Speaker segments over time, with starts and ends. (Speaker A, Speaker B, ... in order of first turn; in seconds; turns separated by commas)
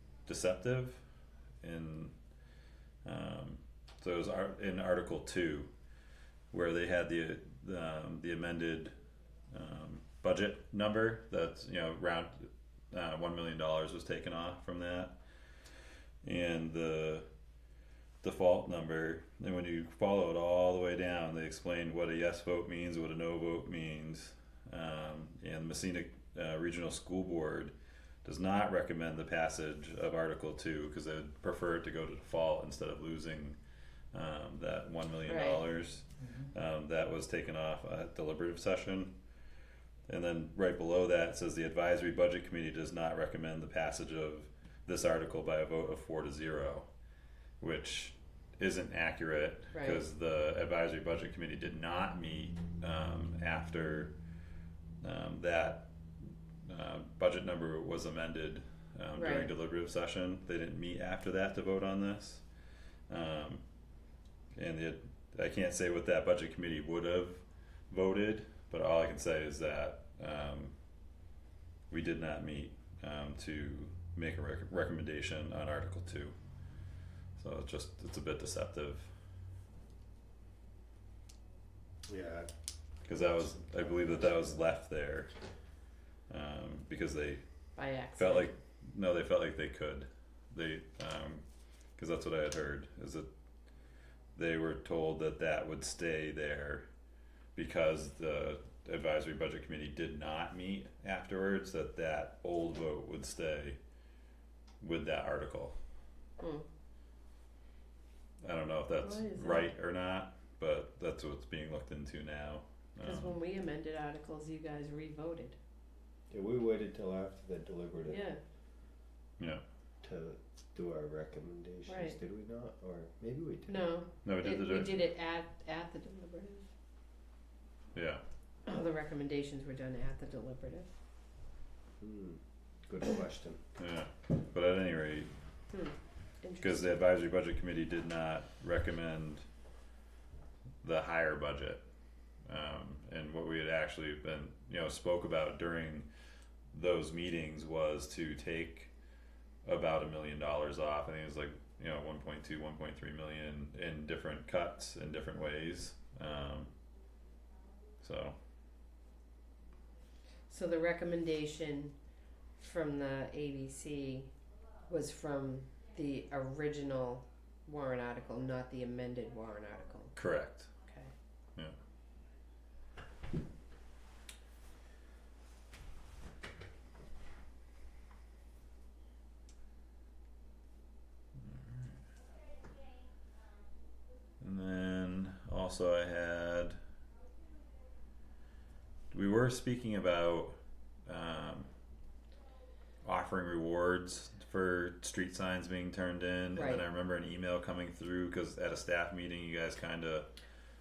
Speaker A: 0.3-1.0, Speaker A: 1.6-2.1, Speaker A: 3.0-5.7, Speaker A: 6.5-8.9, Speaker A: 9.5-15.1, Speaker A: 16.2-17.3, Speaker A: 18.2-27.7, Speaker A: 28.2-33.6, Speaker A: 34.1-39.1, Speaker B: 35.3-35.6, Speaker A: 40.1-46.9, Speaker A: 47.6-54.1, Speaker B: 49.7-50.0, Speaker A: 55.0-55.9, Speaker A: 56.6-62.4, Speaker B: 59.1-59.5, Speaker A: 63.1-63.6, Speaker A: 64.5-70.7, Speaker A: 71.9-76.3, Speaker A: 77.4-79.1, Speaker C: 82.1-82.5, Speaker A: 83.0-85.3, Speaker A: 86.3-87.4, Speaker B: 87.8-88.5, Speaker A: 88.2-91.4, Speaker A: 92.0-93.3, Speaker A: 94.3-96.9, Speaker A: 97.5-103.8, Speaker A: 104.8-105.8, Speaker B: 106.4-106.7, Speaker A: 108.4-113.3, Speaker B: 109.0-109.7, Speaker B: 113.0-115.5, Speaker C: 116.3-118.2, Speaker B: 118.1-118.4, Speaker C: 120.0-123.9, Speaker B: 121.9-122.2, Speaker B: 123.7-126.7, Speaker A: 124.2-125.0, Speaker A: 127.9-128.2, Speaker B: 128.7-130.9, Speaker C: 132.0-133.6, Speaker A: 133.8-135.3, Speaker B: 135.7-136.8, Speaker A: 136.6-139.4, Speaker A: 140.8-141.8, Speaker A: 142.5-146.1, Speaker A: 146.7-148.9, Speaker A: 149.6-156.7, Speaker A: 158.0-158.3, Speaker B: 160.5-161.9, Speaker B: 162.6-164.3, Speaker B: 164.9-170.2, Speaker A: 170.2-170.7, Speaker B: 170.8-171.1, Speaker A: 181.4-182.0, Speaker A: 184.4-186.8, Speaker A: 189.1-191.7, Speaker A: 193.0-200.3, Speaker B: 196.5-196.8